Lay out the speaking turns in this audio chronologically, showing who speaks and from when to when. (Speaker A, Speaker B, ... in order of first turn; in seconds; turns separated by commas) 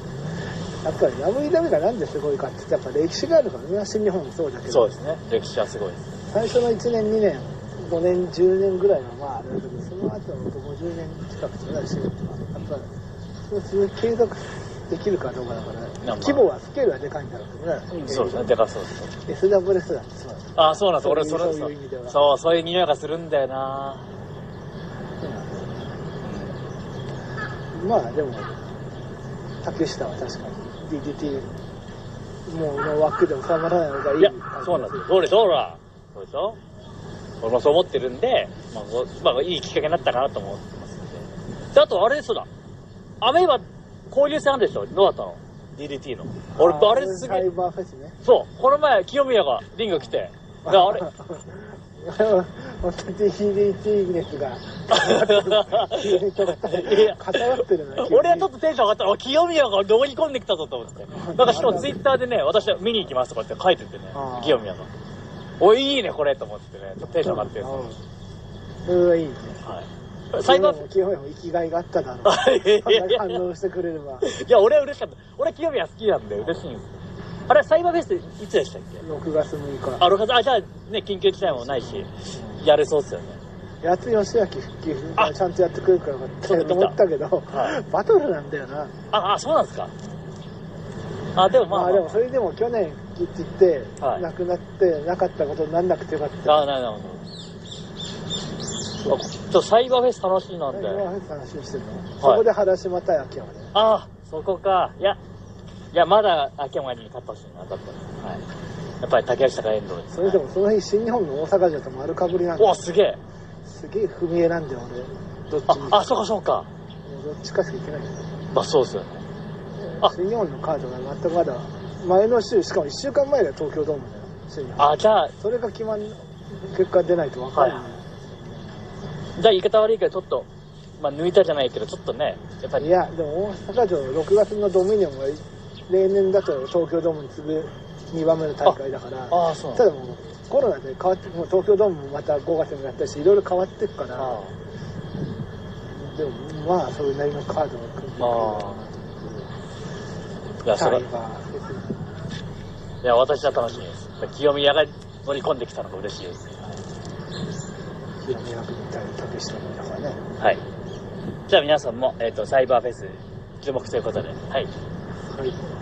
Speaker A: 0.8-5.0, Speaker B: 4.7-6.1, Speaker A: 6.3-12.9, Speaker A: 13.5-18.5, Speaker B: 16.0-16.4, Speaker B: 18.0-19.1, Speaker A: 19.3-22.2, Speaker B: 20.6-24.1, Speaker A: 25.2-26.0, Speaker B: 26.2-26.6, Speaker A: 27.7-28.5, Speaker A: 29.6-31.5, Speaker A: 32.5-35.4, Speaker B: 34.2-36.6, Speaker B: 37.4-42.5, Speaker B: 43.2-47.5, Speaker A: 46.6-48.2, Speaker B: 48.2-51.1, Speaker A: 50.6-58.5, Speaker B: 54.9-64.9, Speaker A: 61.1-62.0, Speaker A: 64.1-64.7, Speaker B: 65.6-67.9, Speaker A: 67.0-68.0, Speaker A: 68.9-69.6, Speaker B: 69.6-70.8, Speaker A: 70.3-74.3, Speaker B: 72.2-73.4, Speaker B: 74.2-77.0, Speaker B: 77.5-79.0, Speaker A: 79.0-80.1, Speaker B: 80.0-83.4, Speaker A: 81.4-82.6, Speaker A: 83.8-88.9, Speaker B: 86.5-87.0, Speaker B: 87.5-87.8, Speaker B: 89.1-89.9, Speaker B: 91.3-92.2, Speaker A: 91.7-96.7, Speaker B: 96.5-97.2, Speaker B: 99.0-101.0, Speaker A: 100.7-103.7, Speaker B: 102.2-102.5, Speaker B: 103.7-105.2, Speaker B: 105.9-108.4, Speaker B: 109.0-110.4, Speaker A: 110.1-112.9, Speaker B: 112.6-113.2, Speaker A: 113.7-116.1, Speaker B: 115.7-116.7, Speaker A: 117.0-118.4, Speaker B: 118.5-119.2, Speaker A: 119.8-128.9, Speaker B: 124.8-125.3, Speaker B: 127.5-127.9, Speaker B: 129.4-130.5, Speaker B: 131.0-132.9, Speaker A: 132.8-144.4, Speaker B: 139.3-139.9, Speaker B: 144.2-144.5, Speaker A: 145.9-149.5, Speaker B: 148.2-148.8, Speaker B: 150.6-151.0, Speaker A: 150.7-152.1, Speaker B: 153.0-156.6, Speaker A: 153.4-153.8, Speaker A: 158.2-160.2, Speaker B: 161.5-164.7, Speaker A: 165.3-165.6